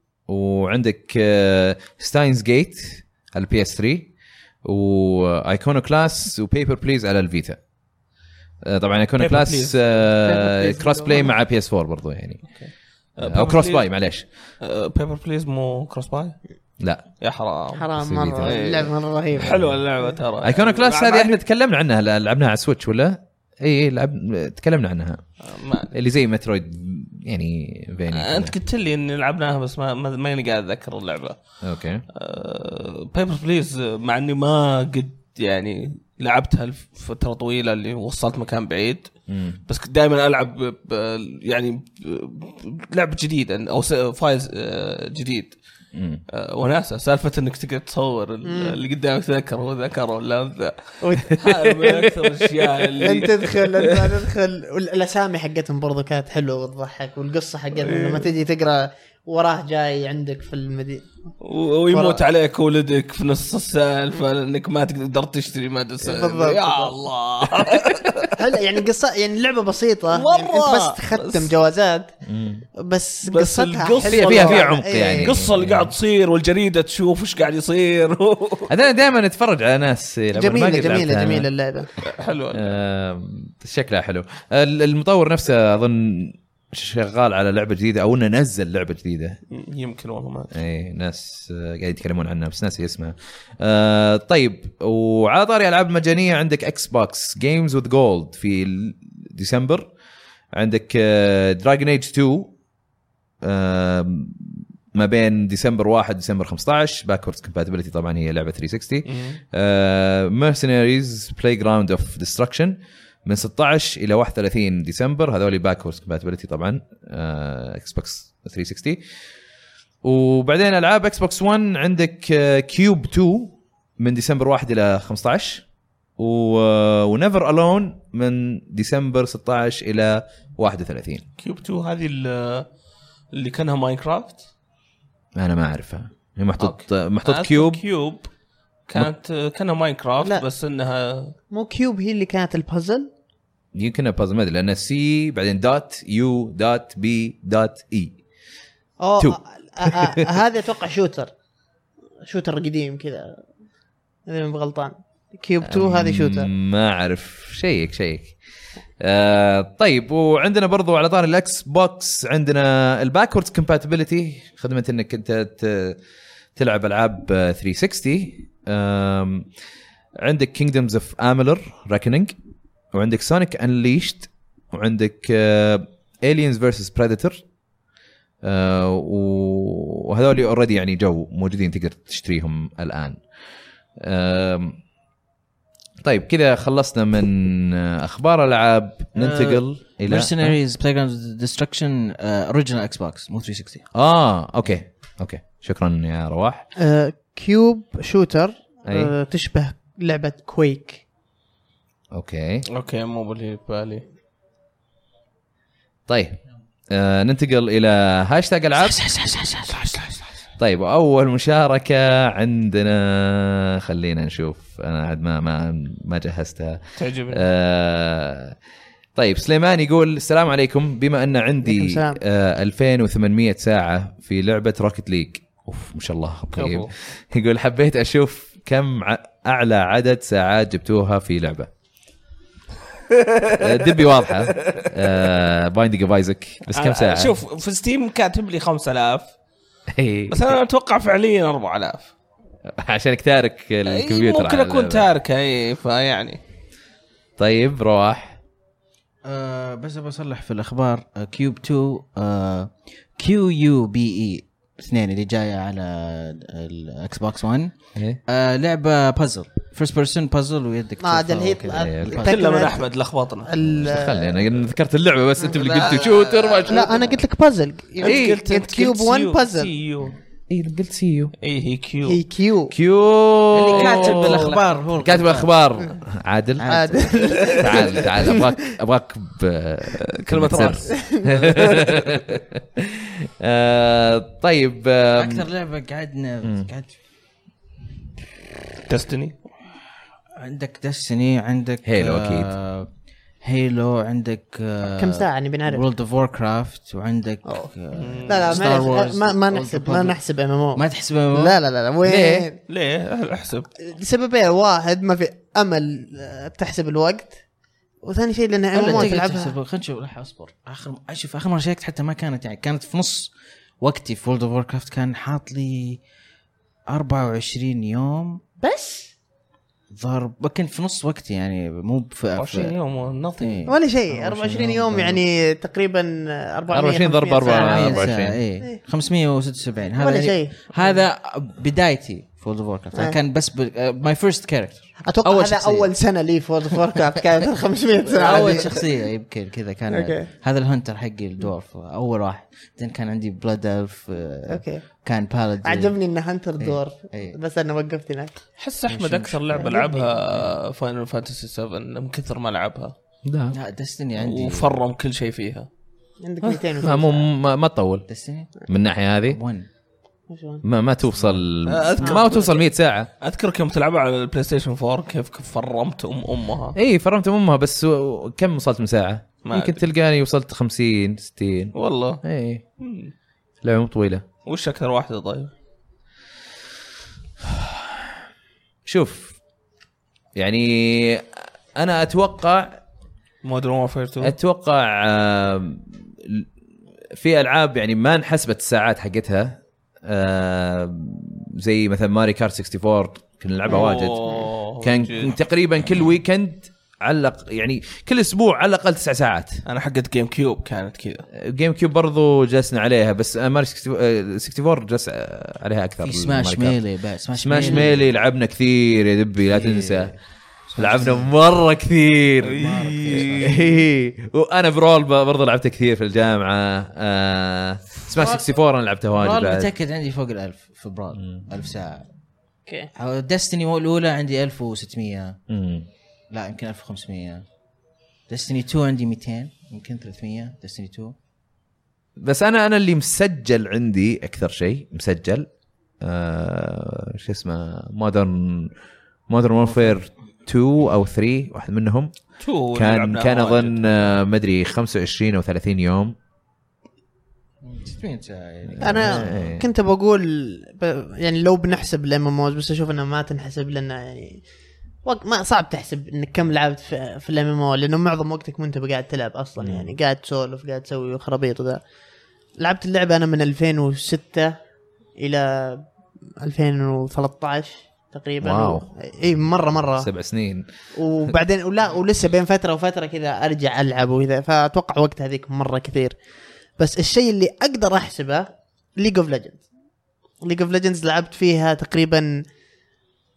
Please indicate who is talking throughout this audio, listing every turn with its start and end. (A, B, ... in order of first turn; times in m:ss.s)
0:00.3-0:04.1 A
0:04.6-0:07.6 A
0:08.6-0:12.4 A
0:09.2-0:10.1 B
0:10.2-0:11.3 C
0:12.5-0:13.9 B
0:13.2-0:14.3 A
0:14.6-0:16.4 B
0:16.8-0:17.0 A
0:17.2-0:17.8 B
0:17.8-0:19.6 C
0:18.0-0:18.6 A
0:18.4-0:21.4 B
0:19.3-0:19.8 A
0:20.4-0:25.2 A
0:25.4-0:25.9 B
0:25.9-0:28.5 A
0:28.1-0:31.4 B
0:31.6-0:32.0 A
0:32.1-0:39.1 B
0:39.3-0:39.6 A
0:39.7-0:45.6 B
0:45.9-0:46.2 A
0:46.3-0:54.1 B
0:48.4-0:48.8 C
0:51.0-0:51.4 C
0:53.0-1:01.1 C
0:57.8-0:58.3 B
1:01.4-1:08.3 B
1:01.9-1:02.2 C
1:06.0-1:06.9 C
1:08.4-1:12.1 C
1:10.1-1:11.5 B
1:12.2-1:12.7 A
1:12.8-1:15.3 C
1:13.2-1:18.7 B
1:14.1-1:15.9 A
1:18.7-1:21.5 A
1:20.3-1:21.9 C
1:22.0-1:22.7 B
1:22.5-1:29.4 A
1:29.5-1:30.6 B
1:30.5-1:39.9 A
1:40.5-1:42.5 A
1:43.4-1:59.0 A
1:49.0-1:49.4 B
2:00.0-2:05.6 A
2:06.2-2:11.2 A
2:11.4-2:12.7 B
2:13.3-2:14.5 B
2:15.4-2:17.8 A
2:16.6-2:18.3 B
2:18.9-2:21.3 B
2:21.5-2:23.1 C
2:23.7-2:28.2 A
2:29.0-2:31.3 C
2:29.2-2:30.2 A
2:32.2-2:33.4 C
2:34.3-2:36.5 C
2:35.6-2:38.3 A
2:39.0-2:46.0 A
2:46.6-2:49.5 A
2:50.2-2:52.3 A
2:52.9-2:57.4 A
2:58.4-3:03.2 A
3:04.0-3:04.8 A
3:06.0-3:10.5 A
3:09.1-3:13.9 D
3:13.9-3:16.7 A
3:16.8-3:21.0 C
3:18.9-3:19.1 A
3:22.1-3:22.6 A
3:22.7-3:24.0 B
3:26.1-3:26.4 A
3:26.9-3:29.0 A
3:28.8-3:30.1 D
3:30.6-3:36.8 A
3:37.0-3:37.4 B
3:37.3-3:38.6 A
3:39.2-3:51.7 A
3:41.6-3:42.2 C
3:46.6-3:46.9 B
3:53.1-3:54.9 B
3:53.6-3:57.4 A
3:56.7-3:59.3 B
3:59.9-4:00.6 A
4:00.3-4:02.1 B
4:02.8-4:05.1 A
4:03.8-4:06.4 B
4:07.4-4:08.4 A
4:09.2-4:17.7 D
4:18.3-4:22.6 D
4:21.0-4:22.8 C
4:21.8-4:22.2 A
4:22.2-4:23.5 B
4:23.5-4:24.4 C
4:23.6-4:27.1 A
4:25.5-4:26.9 B
4:26.7-4:29.7 C
4:28.0-4:30.1 B
4:28.0-4:28.4 A
4:30.5-4:31.3 A
4:31.4-4:32.2 B
4:32.1-4:32.7 C
4:32.7-4:36.7 A
4:33.5-4:35.5 D
4:33.7-4:34.5 B
4:36.6-4:37.7 D
4:36.6-4:38.5 C
4:37.6-4:45.4 A
4:40.0-4:42.0 B
4:41.0-4:41.6 C
4:45.1-4:46.9 D
4:46.4-4:46.7 A
4:48.9-4:49.4 B
4:50.3-4:52.9 D
4:51.8-4:52.5 A
4:53.4-5:00.2 D
4:54.8-4:55.8 C
4:58.0-4:58.8 B
4:58.2-5:02.6 C
5:00.7-5:01.6 D
5:02.0-5:02.5 A
5:02.7-5:03.7 B
5:03.8-5:07.4 C
5:08.0-5:09.5 C
5:08.7-5:16.0 D
5:16.9-5:18.4 D
5:18.6-5:19.1 C
5:19.9-5:22.7 D
5:22.4-5:23.7 B
5:23.4-5:25.2 D
5:23.7-5:28.1 C
5:26.7-5:28.4 A
5:27.4-5:35.9 D
5:30.0-5:31.0 C
5:35.1-5:38.8 C
5:38.0-5:46.0 D
5:39.9-5:40.3 C
5:44.5-5:44.8 C
5:45.6-5:48.4 C
5:46.6-5:47.4 D
5:48.6-5:52.9 B
5:48.9-5:49.6 D
5:49.5-5:50.1 C
5:53.2-5:53.6 A
5:53.5-5:54.7 D
5:54.2-5:55.7 B
5:56.2-5:57.3 C
5:56.8-5:58.1 A
5:58.1-5:58.5 D
5:58.7-5:59.4 A
5:59.3-5:59.7 D
6:00.3-6:00.6 C
6:00.6-6:03.1 A
6:01.2-6:01.4 D
6:01.7-6:02.6 B
6:03.2-6:06.8 B
6:06.8-6:12.6 A
6:09.4-6:09.8 B
6:11.7-6:12.2 B
6:12.8-6:13.1 B
6:13.6-6:14.2 A
6:14.4-6:15.5 B
6:17.4-6:18.0 A
6:18.8-6:19.3 A
6:20.3-6:22.8 A
6:23.4-6:24.4 B
6:24.2-6:26.4 A
6:27.1-6:39.6 A
6:33.7-6:35.3 B
6:39.6-6:41.2 B
6:41.4-6:46.8 A
6:46.0-6:48.0 D
6:47.4-6:50.1 A
6:49.5-6:51.3 D
6:50.8-6:59.7 A
6:52.4-6:53.6 B
6:52.4-6:53.8 D
6:58.1-6:58.5 D
6:59.1-7:02.0 D
7:01.2-7:01.4 A
7:02.9-7:05.4 D
7:05.5-7:05.9 A
7:06.3-7:07.4 D
7:08.3-7:11.1 D
7:12.2-7:15.5 A
7:16.0-7:18.7 A
7:19.3-7:22.1 A
7:19.7-7:19.9 D
7:22.4-7:24.1 B
7:22.7-7:26.1 A
7:27.6-7:29.3 D
7:28.7-7:29.6 A
7:28.8-7:34.4 C
7:35.0-7:41.8 C
7:39.6-7:39.9 A
7:42.6-7:44.5 C
7:45.2-7:45.9 C
7:46.4-7:50.1 C
7:48.4-7:48.8 A
7:50.0-7:50.6 A
7:50.9-7:56.2 C
7:56.8-7:59.6 C
8:00.4-8:02.4 C